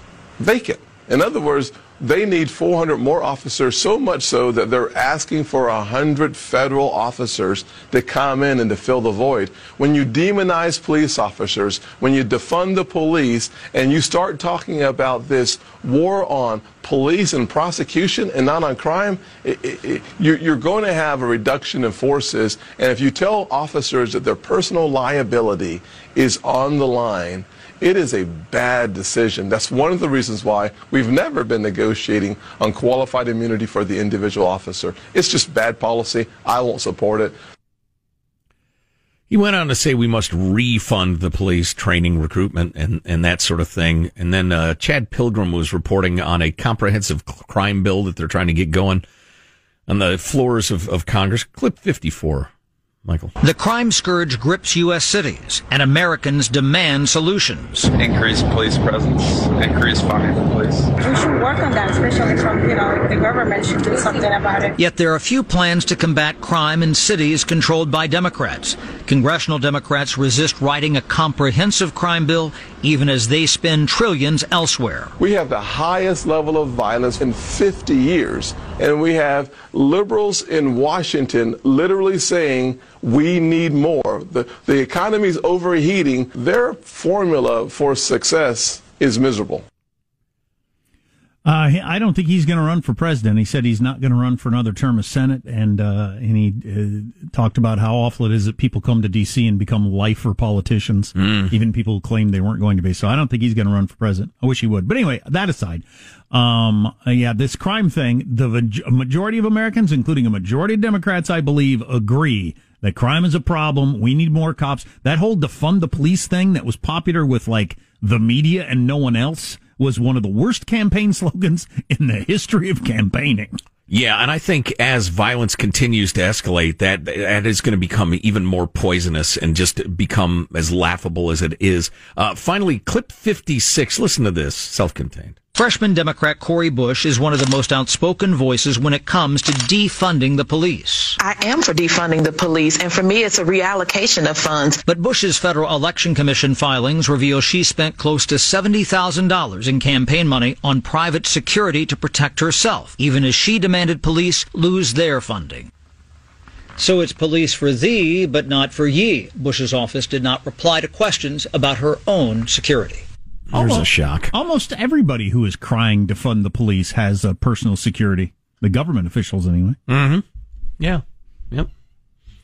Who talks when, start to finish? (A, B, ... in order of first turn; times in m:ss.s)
0:00.4-0:37.4 A
0:39.3-0:49.0 B
0:49.9-0:52.5 B
0:53.0-0:53.3 B
0:53.4-0:57.9 C
0:58.0-1:00.9 D
1:01.0-1:04.7 E
1:04.8-1:15.1 C
1:15.2-1:29.6 A
1:31.4-2:03.6 F
1:41.2-1:41.5 B
2:03.9-2:15.4 B
2:15.5-2:21.2 C
2:21.2-2:24.8 G
2:24.9-2:35.7 C
2:36.8-2:43.0 C
2:43.5-2:44.3 B
2:43.5-2:49.8 F
2:49.9-2:50.2 B
2:50.8-2:51.7 B